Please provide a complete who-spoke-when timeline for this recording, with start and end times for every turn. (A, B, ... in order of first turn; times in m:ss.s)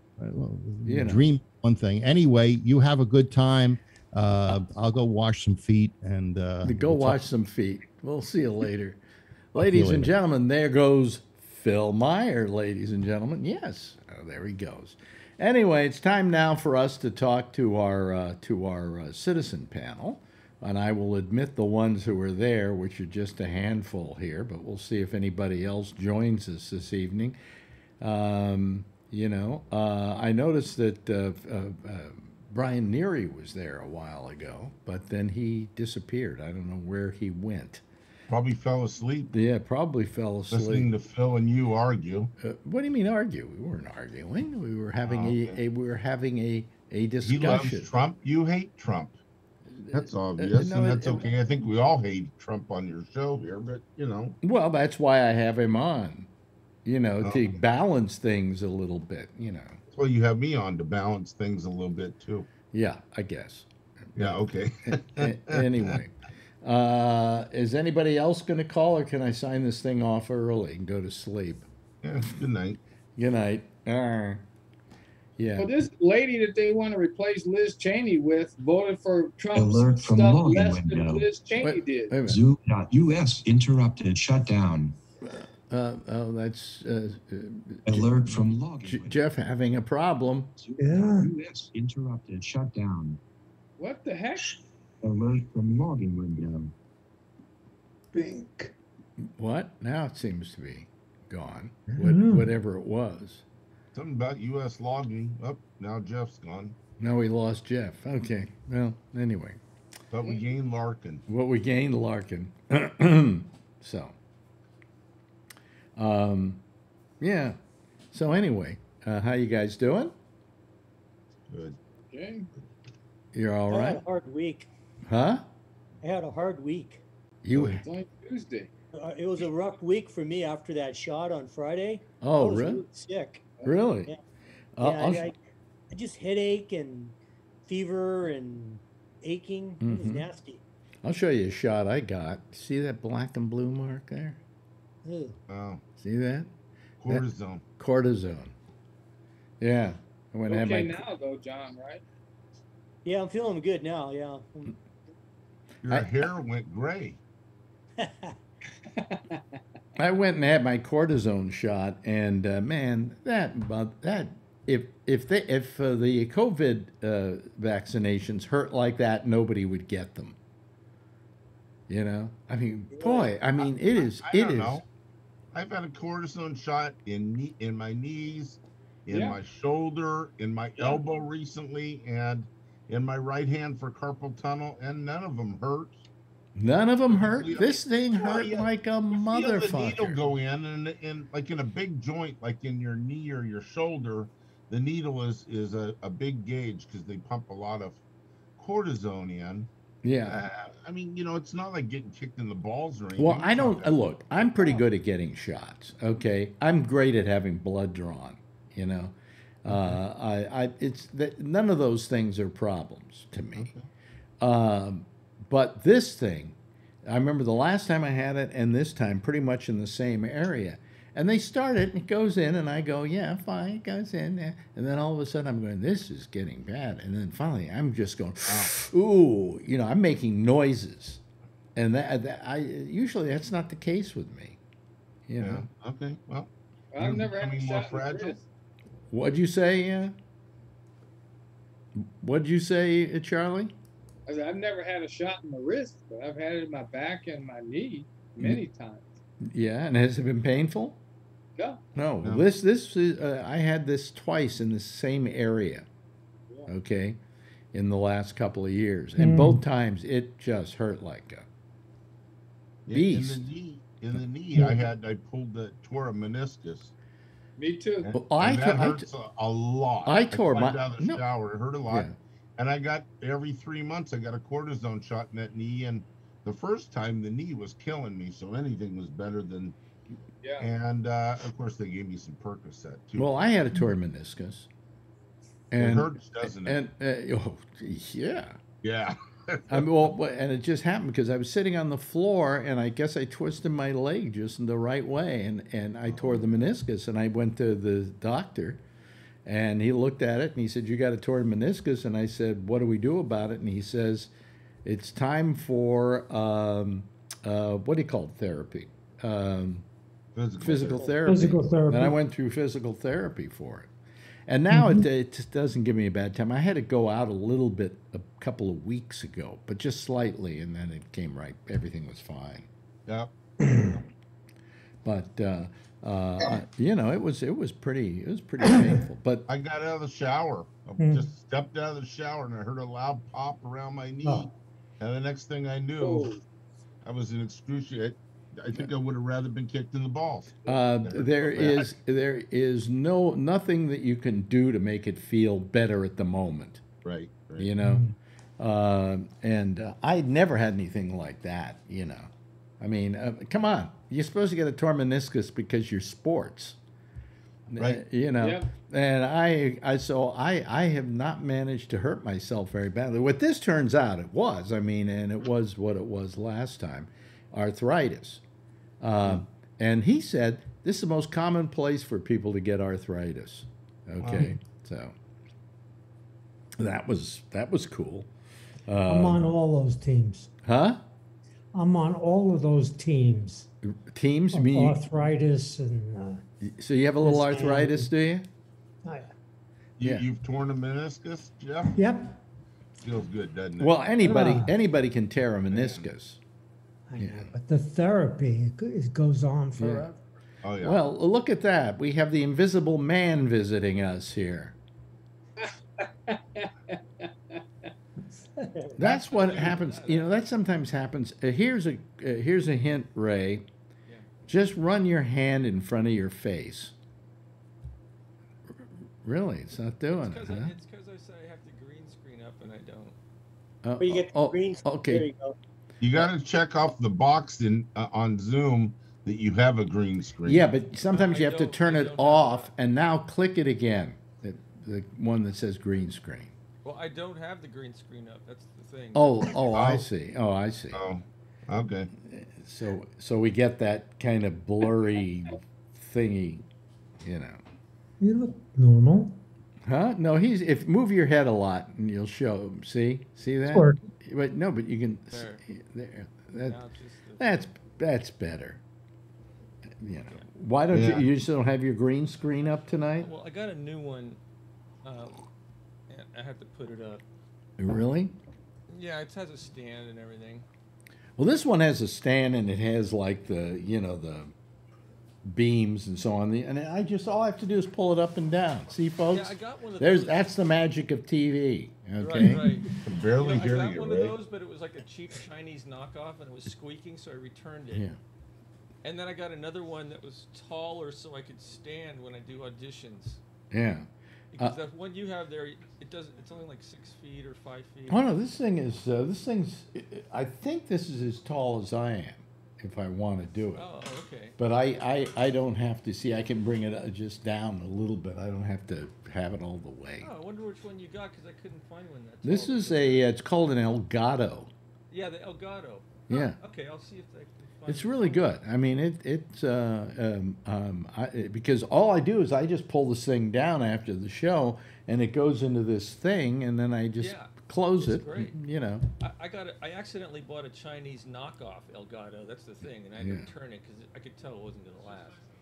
0:00.2-0:07.2 A
0:00.8-0:01.2 B
0:06.6-0:09.0 B
0:09.5-0:27.4 B
0:09.6-0:10.1 A
0:28.0-0:37.8 B
0:38.3-0:39.3 C
0:39.3-0:40.9 B
0:40.5-0:42.3 C
0:42.4-0:47.9 B
0:45.0-0:45.6 C
0:47.2-0:49.2 C
0:49.8-0:51.3 B
0:49.9-0:54.4 C
0:54.4-0:56.3 B
0:56.8-0:59.8 B
0:57.2-0:57.6 C
0:59.9-1:02.5 C
1:02.7-1:04.4 B
1:04.2-1:05.9 C
1:05.2-1:11.6 B
1:12.0-1:12.8 C
1:13.2-1:14.4 B
1:15.4-1:15.7 B
1:15.6-1:22.2 D
1:19.5-1:21.3 E
1:21.6-1:22.4 B
1:22.2-1:25.0 E
1:25.2-1:30.5 B
1:27.8-1:29.2 E
1:30.6-1:33.2 E
1:30.8-1:31.3 F
1:33.8-1:34.6 D
1:35.0-1:36.7 E
1:38.1-1:38.7 F
1:39.2-1:43.4 B
1:41.9-1:42.5 F
1:43.9-1:46.8 C
1:47.0-1:49.6 B
1:50.1-1:51.2 C
1:51.3-1:54.1 B
1:56.0-1:56.6 B
1:57.2-1:57.6 B
1:58.1-2:00.1 B
2:01.5-2:01.8 C
2:02.1-2:02.5 D
2:03.3-2:04.0 B
2:03.7-2:04.7 G
2:05.1-2:05.4 B
2:06.0-2:07.0 G
2:07.4-2:07.8 B
2:07.5-2:07.8 C
2:07.8-2:08.7 D
2:09.0-2:13.5 G
2:12.2-2:12.8 B
2:13.6-2:14.1 B
2:14.8-2:15.3 B
2:14.8-2:15.4 G
2:15.9-2:17.1 G
2:17.6-2:20.6 G
2:19.8-2:20.3 B
2:21.0-2:24.4 B
2:25.0-2:25.4 G
2:25.5-2:25.8 C
2:26.0-2:26.5 B
2:27.0-2:27.6 C
2:27.8-2:28.5 B
2:29.6-2:31.0 B
2:30.5-2:32.0 D
2:33.0-2:34.7 G
2:35.8-2:37.2 C
2:38.0-2:38.3 G
2:39.0-2:39.4 D
2:40.0-2:50.4 B
2:51.9-2:54.8 B
2:54.0-2:54.8 C
2:55.5-3:06.0 C
2:59.1-2:59.4 D
3:00.8-3:01.0 D
3:06.6-3:10.2 B
3:07.1-3:18.0 C
3:18.6-3:19.7 C
3:20.0-3:20.4 B
3:20.2-3:23.9 C
3:23.2-3:33.7 B
3:33.5-3:33.8 C
3:34.4-3:36.5 B
3:37.1-3:51.2 B
3:48.5-3:48.7 C
3:51.8-3:54.6 B
3:55.3-3:55.6 B
3:55.4-3:58.4 C
3:56.9-3:58.4 D
3:59.1-4:00.1 B
4:02.0-4:03.7 B
4:04.2-4:09.1 D
4:09.4-4:11.0 B
4:11.9-4:15.9 B
4:16.7-4:17.2 B
4:17.7-4:21.5 B
4:19.2-4:19.6 F
4:22.9-4:26.9 C
4:22.9-4:23.4 B
4:27.6-4:28.1 D
4:28.1-4:39.8 C
4:28.1-4:29.1 B
4:30.0-4:31.2 B
4:31.9-4:32.1 B
4:40.4-4:40.7 D
4:40.6-4:43.4 C
4:43.2-4:44.7 B
4:45.7-4:48.6 B
4:45.8-4:46.8 C
4:48.8-4:49.8 C
4:49.7-4:58.8 B
4:56.1-4:56.6 C
4:59.4-5:04.3 B
5:04.8-5:09.8 B
5:10.3-5:11.1 C
5:10.6-5:13.9 B
5:11.2-5:12.2 F
5:14.5-5:22.7 B
5:14.7-5:15.0 F
5:23.6-5:24.0 F
5:25.0-5:29.4 B
5:29.5-5:34.5 C
5:31.0-5:31.3 F
5:35.0-5:36.3 C
5:36.0-5:36.4 D
5:37.0-5:41.9 C
5:40.6-5:46.8 B
5:47.0-5:47.7 C
5:47.6-5:48.0 B
5:47.8-5:48.1 F
5:48.6-5:52.3 B
5:52.8-5:56.8 B
5:57.7-6:08.4 B
5:57.8-5:58.0 C
5:58.4-5:58.7 D
6:09.0-6:15.1 B
6:14.2-6:14.6 C
6:16.8-6:18.3 B
6:18.8-6:19.5 B
6:19.0-6:20.5 F
6:20.6-6:21.0 B
6:21.7-6:23.7 F
6:23.8-6:25.0 B
6:24.5-6:26.4 F
6:26.6-6:28.4 B
6:27.2-6:28.1 F
6:29.0-6:29.3 F
6:30.0-6:31.9 C
6:31.9-6:32.4 F
6:33.0-6:34.0 C
6:33.8-6:36.4 B
6:34.2-6:34.7 F
6:35.7-6:36.0 C
6:37.1-6:40.2 F
6:37.2-6:37.5 B
6:39.8-6:40.1 B
6:40.6-6:41.0 C
6:40.8-6:44.8 B
6:45.6-6:47.3 D
6:49.0-6:53.7 B
6:49.0-6:50.3 H
6:54.5-6:56.9 B
6:59.2-7:00.7 B
7:00.1-7:03.2 H
7:03.8-7:05.2 B
7:04.0-7:05.5 G
7:06.0-7:10.7 C
7:10.4-7:16.5 B
7:11.1-7:12.7 H
7:16.8-7:19.5 H
7:19.1-7:21.0 B
7:19.7-7:20.0 C
7:20.9-7:22.1 C
7:22.2-7:26.6 B
7:27.2-7:27.6 B
7:28.2-7:29.4 F
7:29.8-7:36.8 B
7:33.7-7:34.0 F
7:35.3-7:35.6 H
7:36.6-7:37.7 H
7:37.4-7:38.8 B
7:40.0-7:43.3 B
7:40.9-7:41.3 C
7:43.1-7:44.4 H
7:45.0-7:45.4 H
7:46.1-7:47.2 H
7:47.8-7:48.4 B
7:48.9-7:50.6 H
7:51.4-7:54.5 B
7:55.4-8:02.6 B
7:59.3-8:00.5 H
8:02.2-8:08.1 H
8:03.0-8:04.4 C
8:07.9-8:08.2 B
8:09.0-8:13.4 H
8:13.7-8:14.1 B
8:14.5-8:18.3 H
8:18.1-8:23.8 B
8:23.7-8:24.6 H
8:24.6-8:30.3 B
8:30.2-8:33.3 H
8:32.4-8:34.7 B
8:35.1-8:38.5 H
8:36.3-8:36.6 B
8:37.9-8:49.1 B
8:47.2-8:48.6 H
8:49.2-8:55.4 H
8:53.2-8:53.5 B